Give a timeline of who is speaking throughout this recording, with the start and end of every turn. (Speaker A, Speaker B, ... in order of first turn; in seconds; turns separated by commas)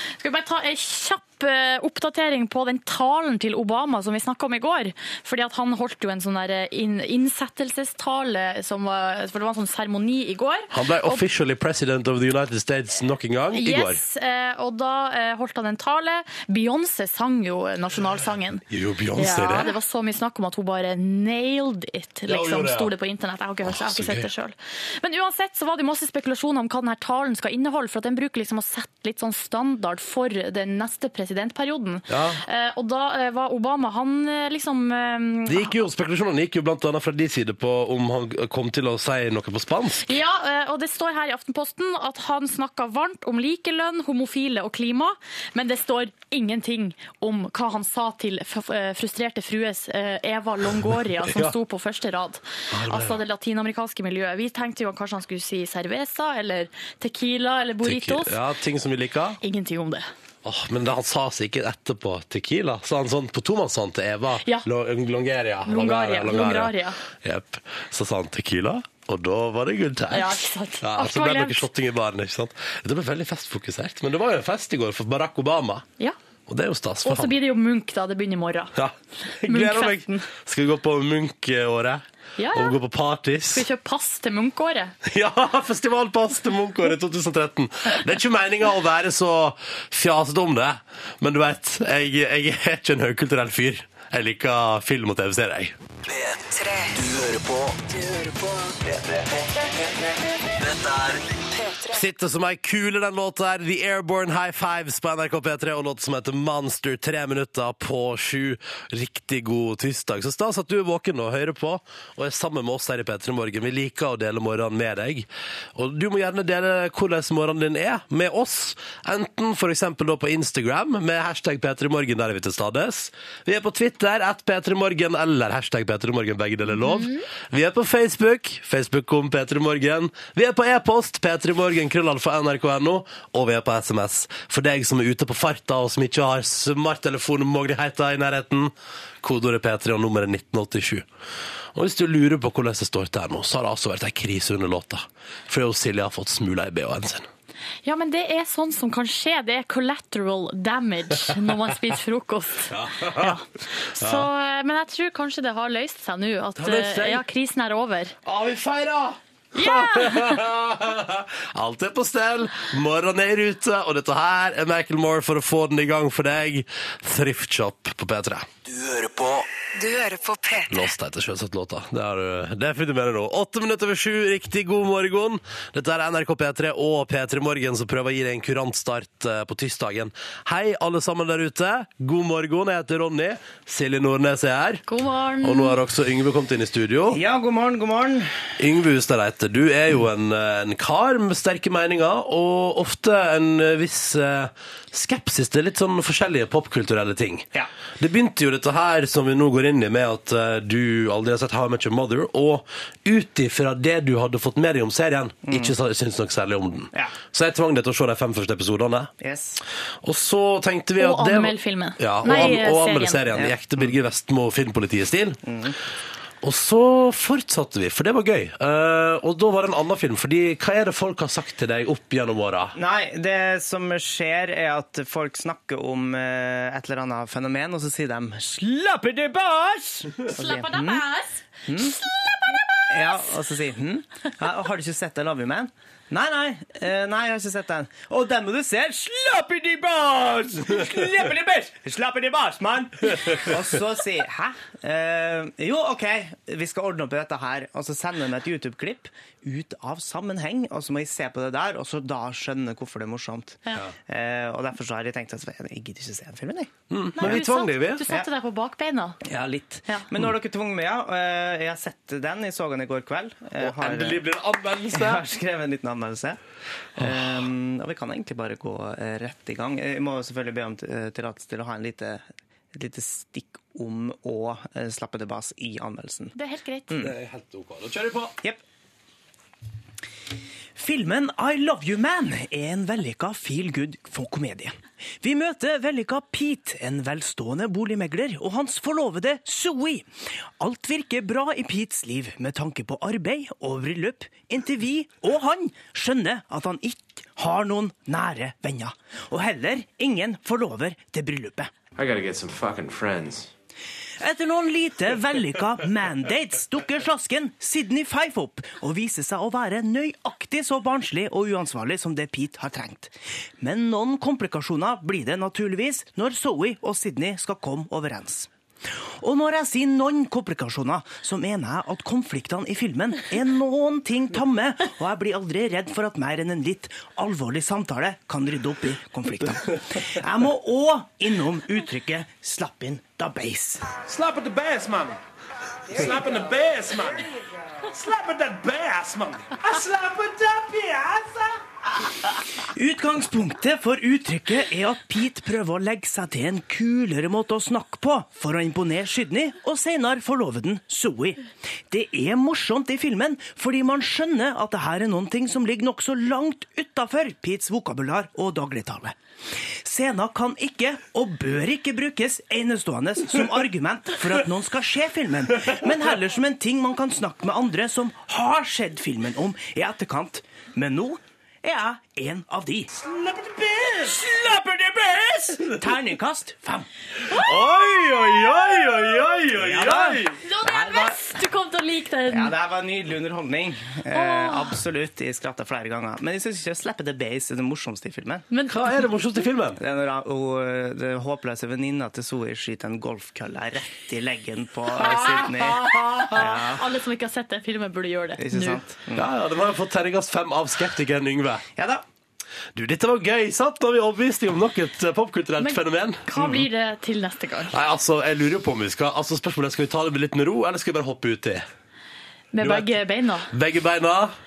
Speaker A: 0.2-11.2, Speaker B: 10.7-14.0, Speaker A: 13.5-18.6, Speaker B: 18.7-19.7, Speaker A: 19.1-35.7, Speaker B: 22.3-22.9, Speaker B: 23.6-24.3, Speaker B: 32.1-32.4, Speaker B: 35.5-40.1, Speaker A: 40.0-58.4, Speaker B: 51.2-51.5, Speaker B: 52.7-53.2, Speaker B: 57.8-59.4, Speaker A: 59.4-60.0, Speaker B: 60.4-75.8, Speaker A: 65.7-67.0, Speaker A: 70.1-71.7, Speaker B: 76.5-77.3, Speaker A: 77.0-78.7, Speaker B: 78.7-83.6, Speaker A: 79.4-80.2, Speaker A: 82.4-82.8, Speaker A: 83.5-84.9, Speaker B: 85.0-95.7, Speaker C: 96.0-99.8, Speaker C: 100.5-102.0, Speaker B: 101.9-138.7, Speaker A: 126.8-127.2, Speaker B: 139.2-141.0, Speaker B: 141.7-147.3, Speaker A: 147.8-158.1, Speaker B: 152.7-153.3, Speaker B: 154.0-154.3, Speaker B: 156.6-157.2, Speaker B: 158.2-168.4, Speaker A: 159.6-160.4, Speaker C: 168.7-170.9, Speaker B: 170.7-184.8, Speaker A: 184.9-185.8, Speaker B: 185.4-187.2, Speaker D: 187.1-188.4, Speaker B: 188.6-197.4, Speaker B: 198.0-209.1, Speaker D: 205.4-205.7, Speaker D: 209.2-209.6, Speaker B: 210.0-215.4, Speaker A: 211.0-213.3, Speaker D: 213.3-213.9, Speaker D: 215.4-215.8, Speaker B: 216.4-222.8, Speaker D: 222.7-231.0, Speaker A: 230.3-232.8, Speaker D: 231.7-232.0, Speaker D: 232.9-257.4, Speaker B: 256.9-258.0, Speaker A: 257.2-259.2, Speaker D: 259.2-264.2, Speaker B: 263.6-265.2, Speaker D: 264.9-266.4, Speaker D: 267.0-276.3, Speaker A: 276.4-276.9, Speaker B: 277.0-278.3, Speaker D: 280.8-290.1, Speaker D: 290.6-301.7, Speaker E: 302.0-303.5, Speaker D: 304.2-318.5, Speaker D: 319.2-334.0, Speaker E: 334.0-335.1, Speaker E: 336.0-337.1, Speaker E: 337.9-341.4, Speaker D: 342.6-359.1, Speaker D: 359.8-373.1, Speaker B: 373.1-374.1, Speaker D: 374.0-376.9, Speaker B: 375.2-375.8, Speaker B: 377.3-380.4, Speaker D: 379.4-381.2, Speaker A: 380.4-382.5, Speaker D: 382.3-388.4, Speaker A: 384.1-384.8, Speaker A: 388.5-389.4, Speaker B: 388.7-389.8, Speaker D: 389.8-396.8, Speaker B: 395.0-396.4, Speaker A: 395.0-395.5, Speaker A: 396.3-398.8, Speaker D: 398.4-399.3, Speaker B: 399.1-401.6, Speaker D: 401.8-402.0, Speaker B: 402.7-406.6, Speaker A: 405.6-407.7, Speaker B: 407.7-411.6, Speaker A: 412.5-413.5, Speaker B: 412.6-412.9, Speaker B: 413.5-414.3